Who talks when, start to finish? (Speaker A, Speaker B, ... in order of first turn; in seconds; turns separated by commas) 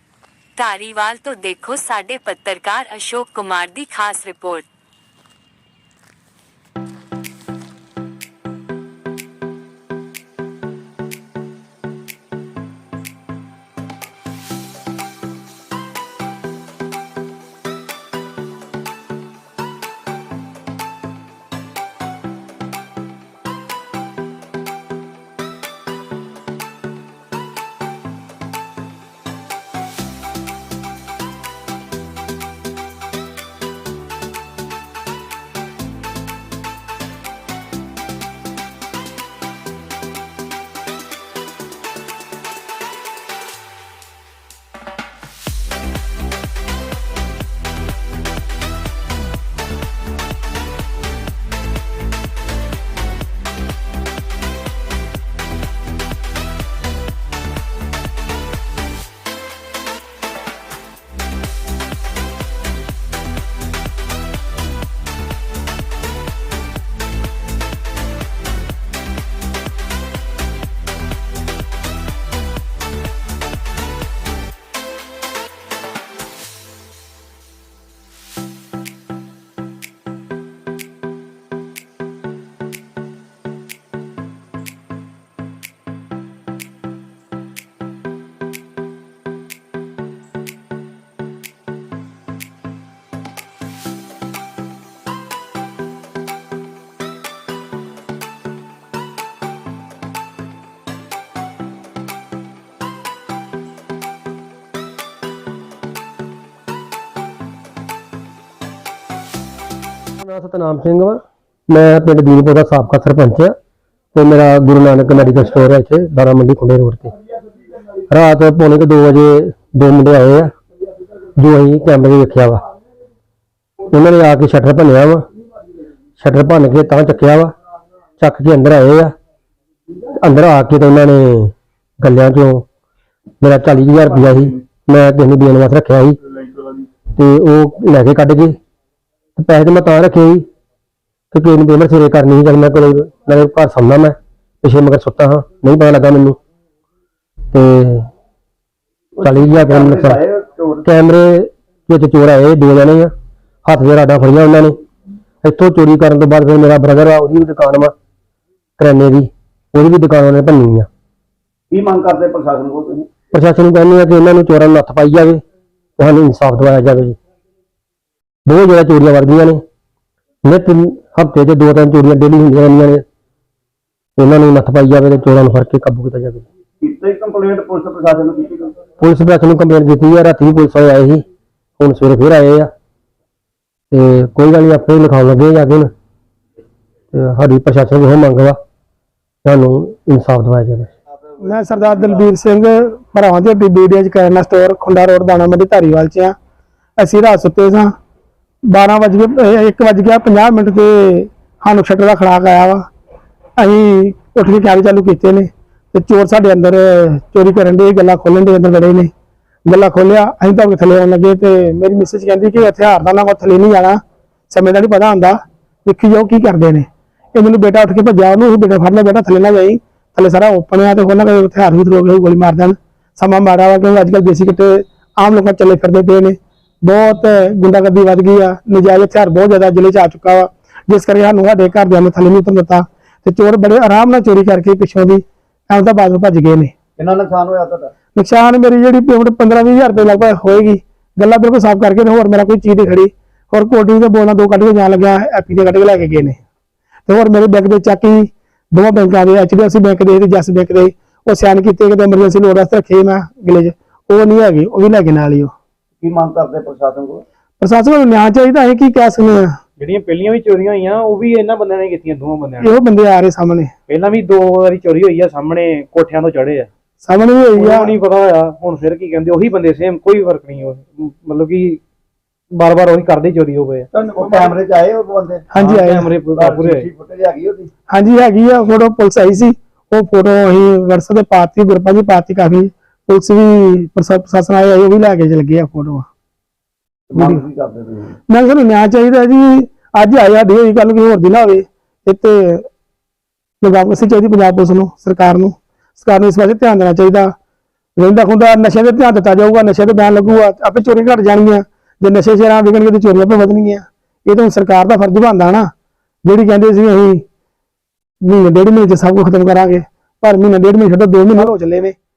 Speaker A: 0.6-4.7, Speaker B: 110.2-113.5, Speaker B: 114.1-117.1, Speaker B: 118.1-120.5, Speaker B: 121.3-122.6, Speaker B: 123.9-125.3, Speaker B: 126.2-127.5, Speaker B: 128.2-129.1, Speaker B: 130.2-132.7, Speaker B: 133.4-136.2, Speaker B: 137.1-138.6, Speaker B: 139.4-140.4, Speaker B: 141.3-146.4, Speaker B: 147.5-148.1, Speaker C: 149.1-150.8, Speaker B: 149.2-150.2, Speaker B: 150.8-153.1, Speaker B: 153.6-154.8, Speaker B: 155.4-157.9, Speaker B: 158.8-160.9, Speaker C: 161.7-163.1, Speaker B: 163.3-165.4, Speaker B: 166.0-167.2, Speaker B: 168.4-169.6, Speaker B: 170.4-173.0, Speaker B: 174.2-176.4, Speaker C: 176.8-178.8, Speaker B: 179.0-181.2, Speaker B: 181.8-182.7, Speaker B: 183.9-185.9, Speaker B: 187.1-188.6, Speaker B: 189.4-190.9, Speaker C: 191.1-192.2, Speaker D: 191.4-196.3, Speaker D: 197.0-197.9, Speaker D: 198.7-202.9, Speaker D: 203.6-209.1, Speaker D: 209.7-236.7, Speaker C: 237.0-237.9, Speaker D: 238.1-246.4, Speaker D: 247.1-255.5, Speaker C: 256.0-257.2, Speaker D: 257.6-259.6, Speaker E: 259.8-262.8, Speaker D: 262.6-263.7, Speaker E: 263.9-266.7, Speaker D: 267.0-267.9, Speaker E: 267.5-271.8, Speaker E: 272.5-274.6, Speaker C: 273.9-275.5, Speaker D: 275.5-276.1, Speaker E: 275.5-276.9, Speaker C: 276.3-277.7, Speaker D: 277.9-286.1, Speaker C: 287.1-288.1, Speaker D: 287.1-287.4, Speaker D: 288.3-292.7, Speaker D: 293.6-297.3, Speaker D: 298.0-305.7, Speaker D: 306.2-307.2, Speaker D: 308.2-311.9